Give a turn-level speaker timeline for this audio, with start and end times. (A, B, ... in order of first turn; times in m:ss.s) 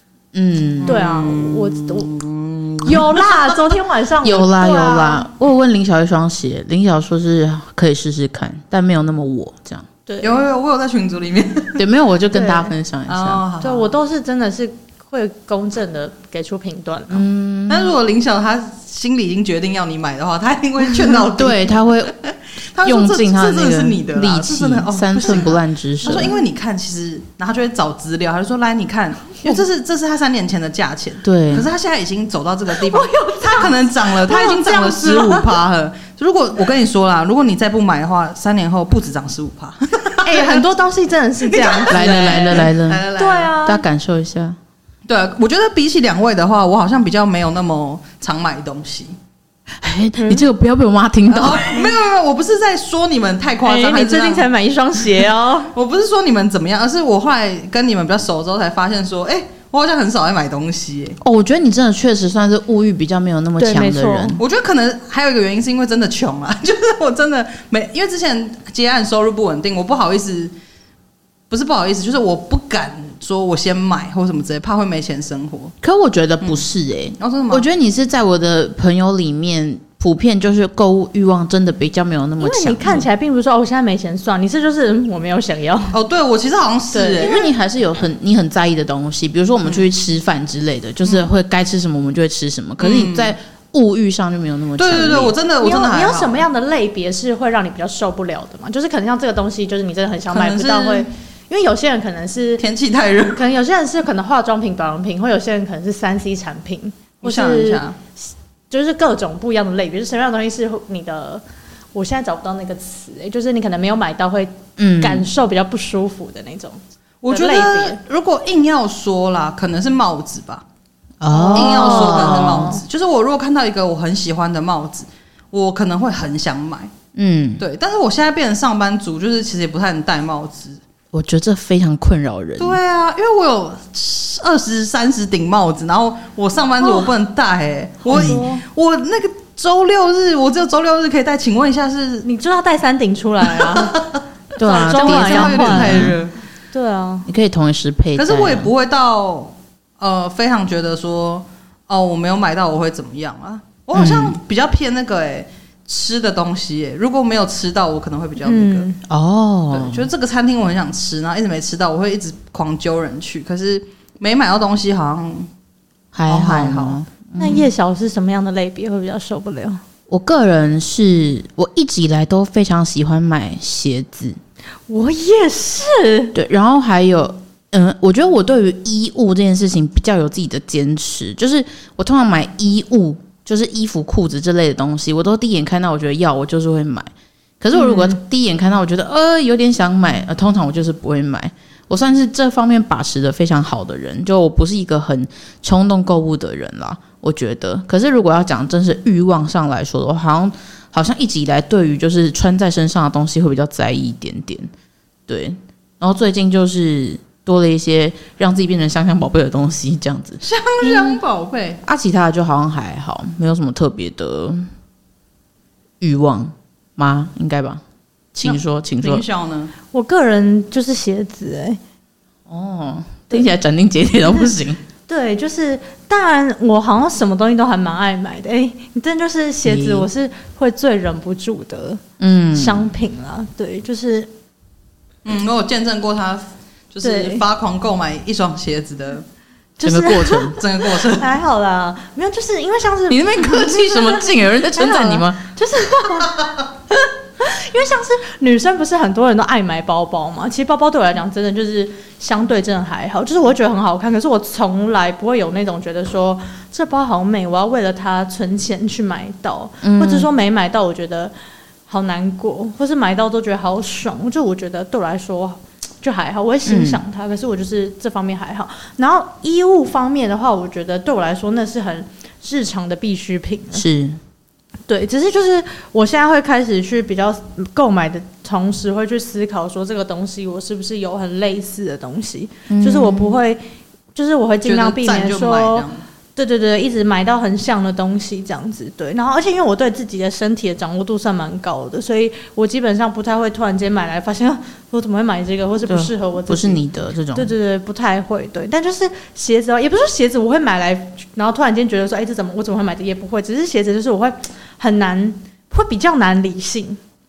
0:00.3-0:01.0 A
0:00.8-0:03.4 B
0:00.9-0:02.1 C
0:02.8-0:05.3 C
0:04.2-0:09.9 A
0:10.1-0:10.4 C
0:10.2-0:11.8 B
0:11.8-0:13.4 A
0:12.3-0:12.7 C
0:13.1-0:14.0 B
0:13.6-0:17.2 C
0:17.1-0:18.0 A
0:17.7-0:40.7 B
0:21.3-0:22.1 A
0:22.8-0:26.3 A
0:31.2-0:31.7 A
0:32.7-0:35.4 C
0:40.2-0:43.9 C
0:41.4-0:43.6 B
0:41.9-0:43.1 A
0:43.6-0:44.6 A
0:45.1-0:49.2 B
0:49.8-0:51.9 A
0:50.2-0:50.5 C
0:51.3-0:54.5 B
0:53.6-0:55.7 C
0:55.7-1:01.2 B
1:01.2-1:04.4 A
1:03.6-1:04.4 C
1:04.4-1:10.5 B
1:11.5-1:15.8 B
1:15.8-1:23.1 A
1:17.2-1:17.7 B
1:22.4-1:26.0 C
1:25.9-1:27.4 B
1:26.9-1:27.4 C
1:27.2-1:35.4 A
1:31.0-1:31.3 B
1:32.8-1:33.4 B
1:34.8-1:36.4 B
1:35.6-1:42.6 C
1:40.3-1:41.1 B
1:42.6-1:43.4 B
1:43.3-1:51.4 C
1:47.2-1:48.0 B
1:51.9-1:58.0 C
1:54.8-1:55.2 A
1:57.2-2:00.6 B
2:01.2-2:02.8 A
2:01.3-2:02.8 C
2:01.6-2:06.9 B
2:07.2-2:07.6 A
2:07.6-2:10.8 B
2:11.1-2:12.8 A
2:12.6-2:22.3 B
2:16.8-2:17.1 C
2:18.0-2:18.6 C
2:18.1-2:18.4 A
2:22.2-2:24.0 C
2:23.5-2:26.3 B
2:24.6-2:26.2 A
2:24.6-2:26.2 C
2:26.7-2:27.3 C
2:27.3-2:28.7 A
2:28.2-2:38.9 B
2:33.9-2:34.4 A
2:38.4-2:39.0 C
2:39.1-2:40.1 A
2:39.7-2:45.5 B
2:46.1-2:47.6 A
2:46.3-2:47.0 B
2:47.4-2:49.8 C
2:50.1-2:54.4 A
2:54.9-2:56.4 C
2:56.3-3:07.1 A
3:07.6-3:24.7 A
3:25.3-3:31.2 A
3:30.4-3:31.8 B
3:31.8-3:34.7 A
3:36.0-3:37.8 A
3:38.3-3:39.2 A
3:38.4-3:39.7 B
3:39.9-3:41.8 C
3:42.5-3:44.8 A
3:45.1-3:52.0 C
3:49.6-3:50.1 A
3:52.2-3:52.9 A
3:52.5-3:54.3 C
3:55.2-3:59.2 B
3:57.0-3:57.4 C
3:59.8-4:21.3 C
3:59.8-4:00.6 A
4:00.6-4:01.3 B
4:03.1-4:05.4 A
4:19.8-4:20.3 A
4:21.9-4:33.8 C
4:26.7-4:27.0 A
4:33.7-4:34.2 A
4:34.9-4:43.6 C
4:42.7-4:43.4 A
4:44.2-4:56.8 C
4:44.6-4:46.0 B
4:55.9-4:57.5 A
4:57.3-5:07.0 C